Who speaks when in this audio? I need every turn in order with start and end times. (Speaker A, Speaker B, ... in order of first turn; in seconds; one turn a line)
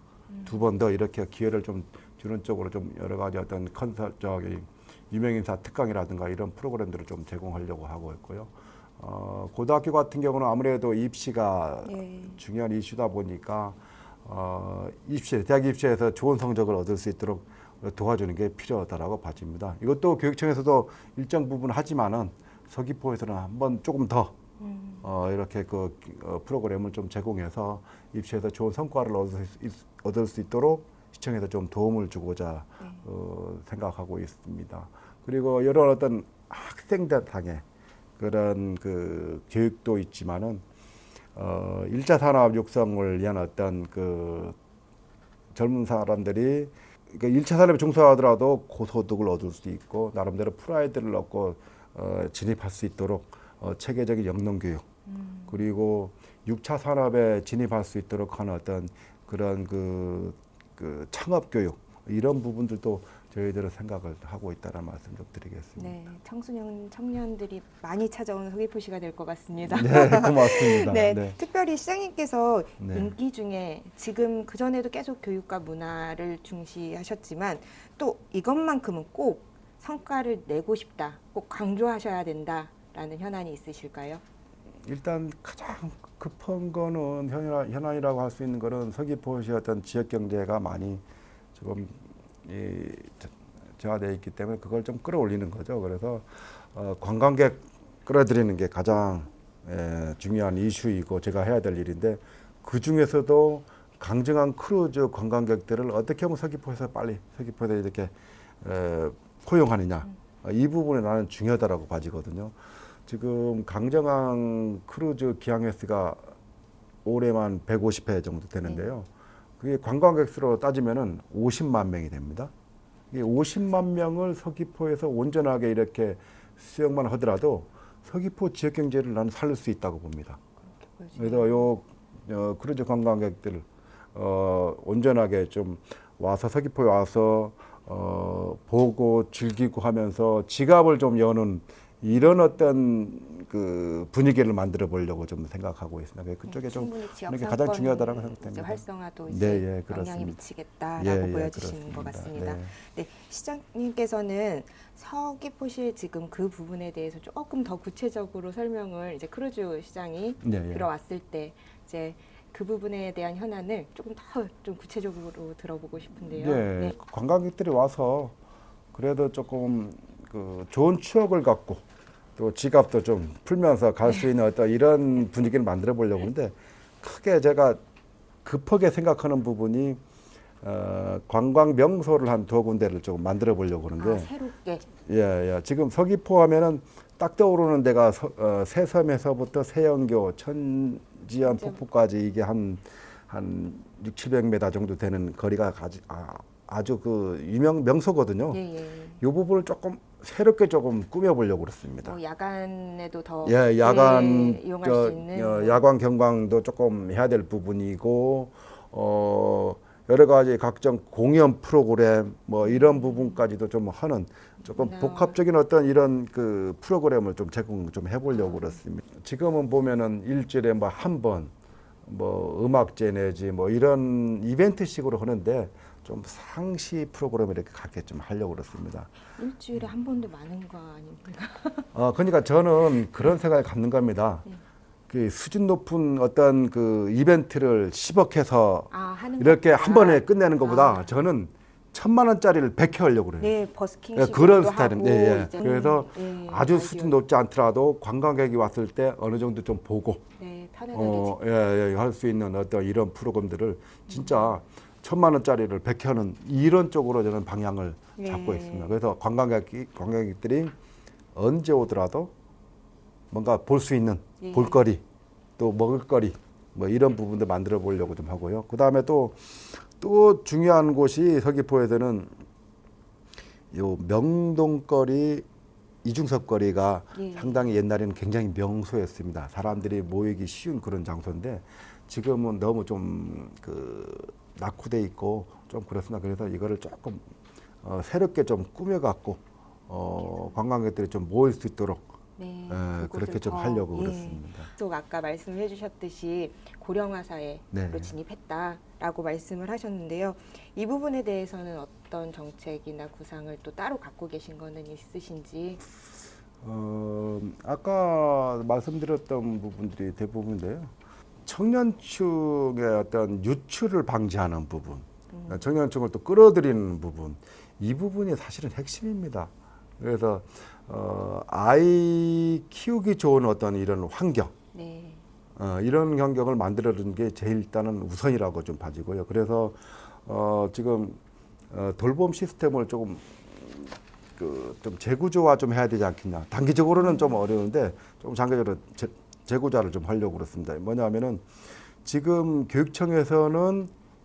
Speaker A: 0.3-0.7
Speaker B: 0.4-24.3
Speaker A: 11.8-12.4
Speaker A: 24.6-25.1
Speaker B: 25.0-37.6
Speaker A: 32.8-33.0
Speaker B: 38.2-40.6
Speaker B: 41.4-44.5
Speaker B: 45.5-54.8
Speaker A: 55.1-55.6
Speaker B: 55.5-66.0
Speaker A: 65.8-84.2
Speaker B: 69.7-71.3
Speaker B: 72.8-73.1
Speaker B: 84.8-91.0
Speaker B: 91.5-112.5
Speaker B: 113.1-116.3
Speaker B: 117.0-119.1
Speaker A: 118.6-118.9
Speaker B: 119.6-122.5
Speaker B: 123.1-130.4
Speaker A: 130.6-131.7
Speaker B: 131.2-150.4
Speaker A: 146.5-166.9
Speaker B: 151.0-152.7
Speaker B: 160.4-160.9
Speaker B: 166.3-168.3
Speaker B: 168.9-171.8
Speaker B: 172.4-177.8
Speaker B: 178.4-180.0
Speaker B: 180.6-184.3
Speaker A: 184.0-184.8
Speaker B: 185.0-198.6
Speaker A: 191.4-191.8
Speaker A: 198.5-199.2
Speaker B: 199.2-202.2
Speaker A: 202.0-205.8
Speaker B: 203.4-221.5
Speaker A: 212.6-213.4
Speaker A: 214.6-215.3
Speaker A: 218.4-218.8
Speaker B: 222.0-229.1
Speaker A: 229.3-231.9
Speaker B: 231.9-234.4
Speaker B: 235.1-243.5
Speaker A: 238.9-241.3
Speaker A: 243.4-247.2
Speaker B: 244.1-250.2
Speaker A: 250.4-251.3
Speaker B: 250.9-260.7
Speaker A: 254.1-254.6
Speaker A: 258.2-258.9
Speaker B: 261.3-262.3
Speaker B: 263.3-265.0
Speaker A: 264.4-264.8
Speaker B: 265.6-272.4
Speaker B: 273.7-275.4
Speaker B: 276.0-287.2
Speaker A: 277.1-277.7
Speaker B: 287.8-292.1
Speaker A: 290.2-290.6
Speaker A: 292.4-305.8
Speaker B: 292.7-294.7
Speaker B: 297.7-298.1
Speaker B: 306.6-310.9
Speaker B: 311.4-324.5
Speaker A: 315.3-315.7
Speaker A: 324.7-325.2
Speaker B: 325.6-331.2
Speaker B: 331.7-341.4
Speaker A: 336.9-337.4
Speaker B: 342.0-343.9